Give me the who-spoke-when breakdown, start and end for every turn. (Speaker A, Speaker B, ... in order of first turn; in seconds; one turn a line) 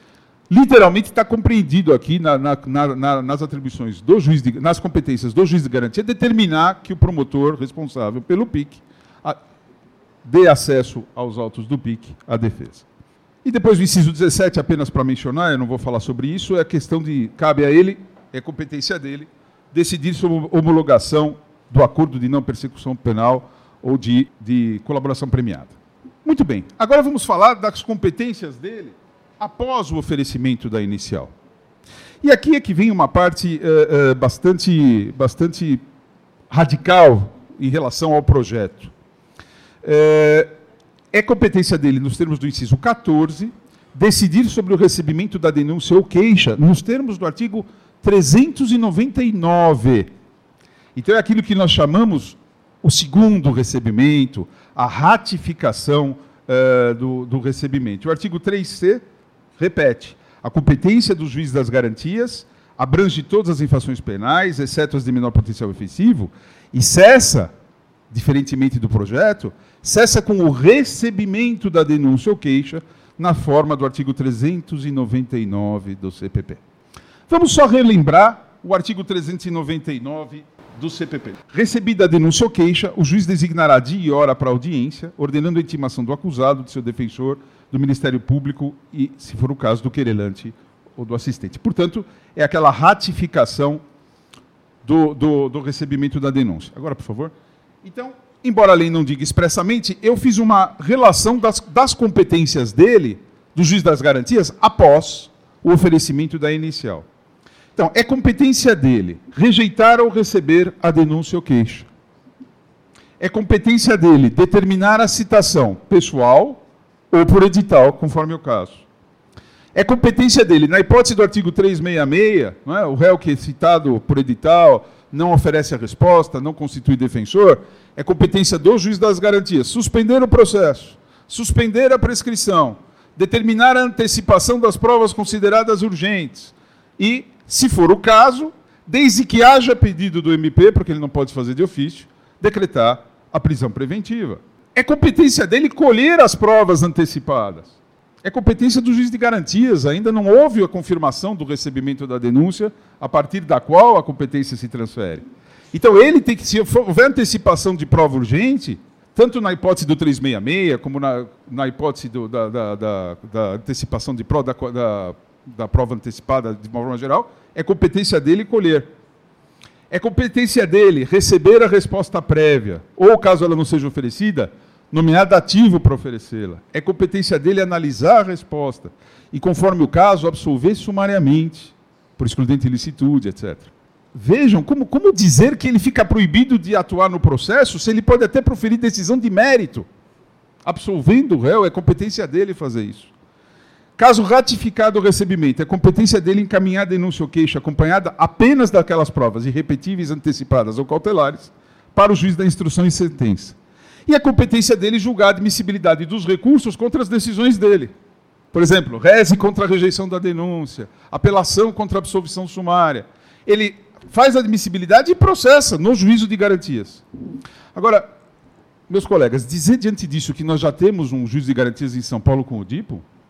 Speaker A: 0.5-9.4
Speaker A: 10.2-12.8
Speaker A: 13.4-31.3
Speaker A: 32.2-35.8
Speaker A: 36.5-38.9
Speaker A: 39.8-40.5
Speaker A: 41.1-50.1
Speaker A: 51.0-59.0
Speaker A: 59.6-67.5
Speaker A: 68.1-76.6
Speaker A: 77.3-93.8
Speaker A: 94.8-107.1
Speaker A: 107.8-111.9
Speaker A: 113.2-118.8
Speaker A: 119.7-168.9
Speaker A: 169.9-189.9
Speaker A: 190.7-193.1
Speaker A: 194.0-203.6
Speaker A: 204.1-207.9
Speaker A: 208.5-217.0
Speaker A: 217.7-218.1
Speaker A: 218.9-223.0